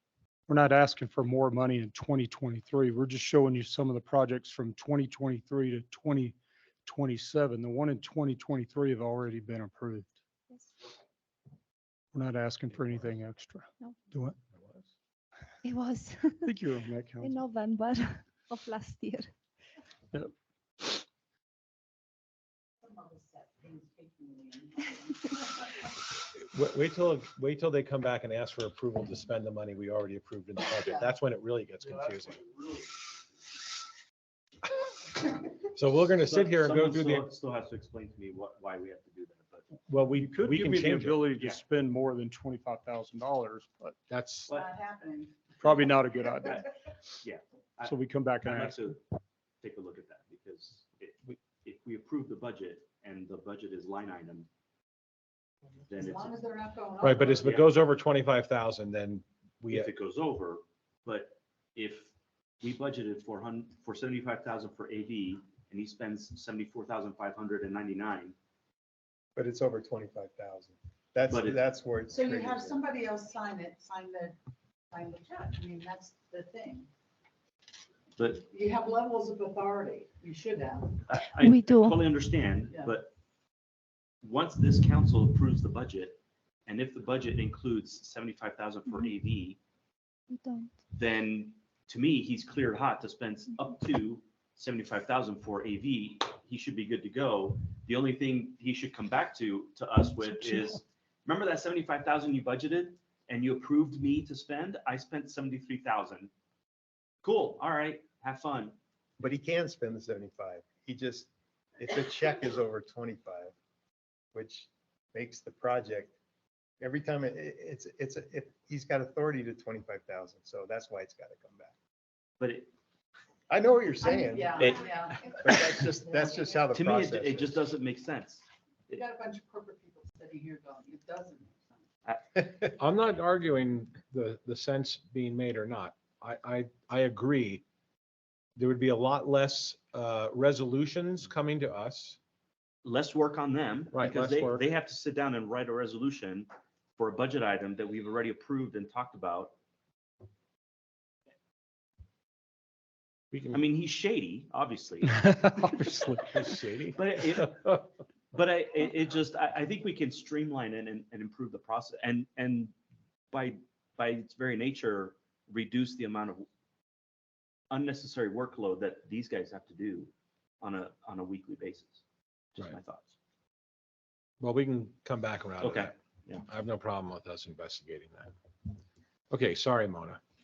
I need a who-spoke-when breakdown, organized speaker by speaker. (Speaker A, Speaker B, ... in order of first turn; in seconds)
Speaker A: 0.5-10.2, 12.1-14.4, 16.4-17.4, 40.3-44.0, 45.6-46.6, 47.8-48.9, 155.1-156.2
Speaker B: 12.8-13.1, 14.6-14.9, 26.4-32.4, 35.8-37.3, 39.9-41.2, 44.1-44.5, 57.0-59.9, 132.8-137.6, 138.6-142.2, 143.9-144.7, 153.3-153.6, 156.2-157.8, 174.4-178.3, 179.3-180.2
Speaker C: 15.6-16.5, 17.2-19.3, 81.4-82.1, 90.3-90.7
Speaker D: 23.1-25.3, 44.6-45.5, 56.1-57.3, 72.1-74.4, 74.9-76.9, 78.4-81.0, 124.0-126.7, 128.9-131.8
Speaker E: 36.2-39.7, 46.4-46.7, 47.2-49.0, 49.6-54.5, 55.9-56.3, 57.4-57.8, 59.7-68.3, 71.3-71.6, 78.2-78.4, 81.1-83.1, 84.2-89.6, 90.9-106.3, 107.2-108.8, 122.4-122.7, 126.7-129.0, 142.8-149.5, 153.5-155.2, 157.0-157.8, 158.3-162.7, 163.3-166.5, 167.7-172.0, 172.6-173.1, 175.6-176.4
Speaker F: 69.4-72.8, 109.2-111.3, 111.8-113.5, 114.3-116.1, 116.8-121.7, 123.5-127.6, 132.4-132.6